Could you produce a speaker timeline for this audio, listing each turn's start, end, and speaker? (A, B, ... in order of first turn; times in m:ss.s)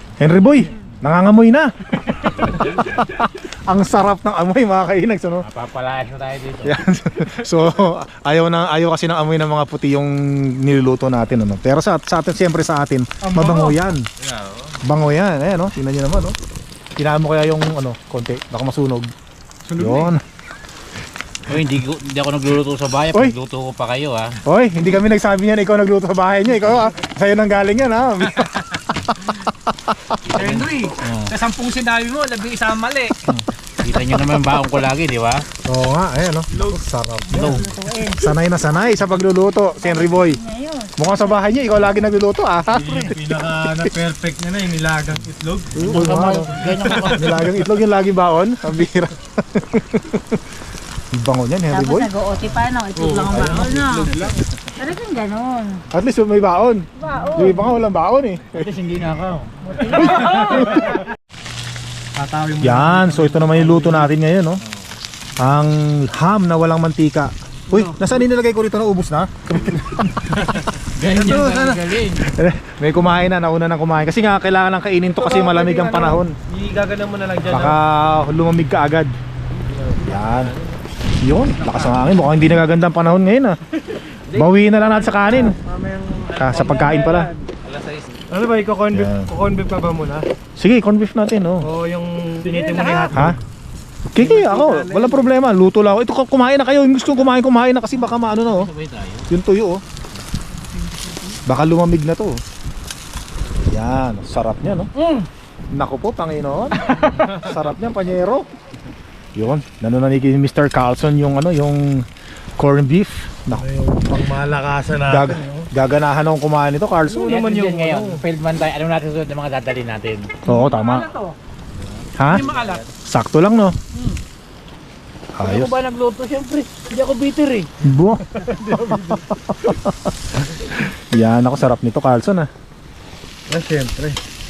0:00.2-0:05.4 A
0:05.4-0:06.8 B
0:06.6-0:14.1 A
0:13.2-0:13.8 C
0:14.8-0:16.4 A
0:17.0-0:19.1 A
0:19.7-0:20.1 C
0:19.8-0:20.2 A
0:21.5-0:24.4 B
0:24.4-0:30.2 A
0:30.3-0:31.3 B
0:30.3-0:33.2 D
0:33.8-0:35.5 B
0:35.7-0:40.4 A
0:36.5-0:36.8 C
0:37.3-0:38.2 E
0:37.3-0:37.8 B
0:39.8-0:41.8 E
0:41.0-0:43.9 A
0:42.7-0:47.2 C
0:45.8-0:50.4 A
0:45.8-0:47.5 B
0:51.1-0:52.1 A
0:51.7-0:54.2 E
0:53.0-0:54.4 C
0:53.3-0:53.8 A
0:54.8-0:55.8 E
0:55.9-0:58.7 A
0:57.0-0:57.7 E
0:58.6-0:59.5 B
0:59.8-1:00.8 E
0:59.9-1:01.0 A
1:02.2-1:04.1 C
1:02.6-1:04.6 A
1:05.4-1:16.3 A
1:10.9-1:12.3 B
1:15.2-1:17.8 C
1:17.5-1:19.1 A
1:19.7-1:20.6 C
1:20.0-1:20.6 A
1:21.2-1:23.6 A
1:24.3-1:25.6 A
1:24.4-1:27.4 C
1:26.4-1:27.3 A
1:27.6-1:28.1 B
1:28.3-1:30.3 C
1:28.9-1:29.3 A
1:30.6-1:31.7 A
1:31.6-1:33.3 C
1:32.5-1:33.1 D
1:33.1-1:33.4 A
1:34.2-1:38.7 A
1:34.2-1:35.3 C
1:38.4-1:39.3 B
1:39.3-1:39.8 A
1:41.5-1:42.4 A
1:43.7-1:44.9 A
1:45.7-1:48.5 A
1:49.4-1:52.1 A
1:52.6-1:53.6 A
1:53.6-1:55.7 C
1:55.1-1:57.4 A
1:57.1-1:58.2 C
1:57.2-2:00.4 B
2:00.4-2:01.1 A
2:00.5-2:01.3 D
2:02.2-2:02.5 A
2:02.3-2:02.8 B
2:02.3-2:02.8 D
2:03.0-2:03.8 A
2:05.4-2:05.8 A
2:05.4-2:07.7 B
2:07.8-2:09.9 A
2:08.5-2:09.2 C
2:10.7-2:12.5 A
2:13.5-2:14.2 C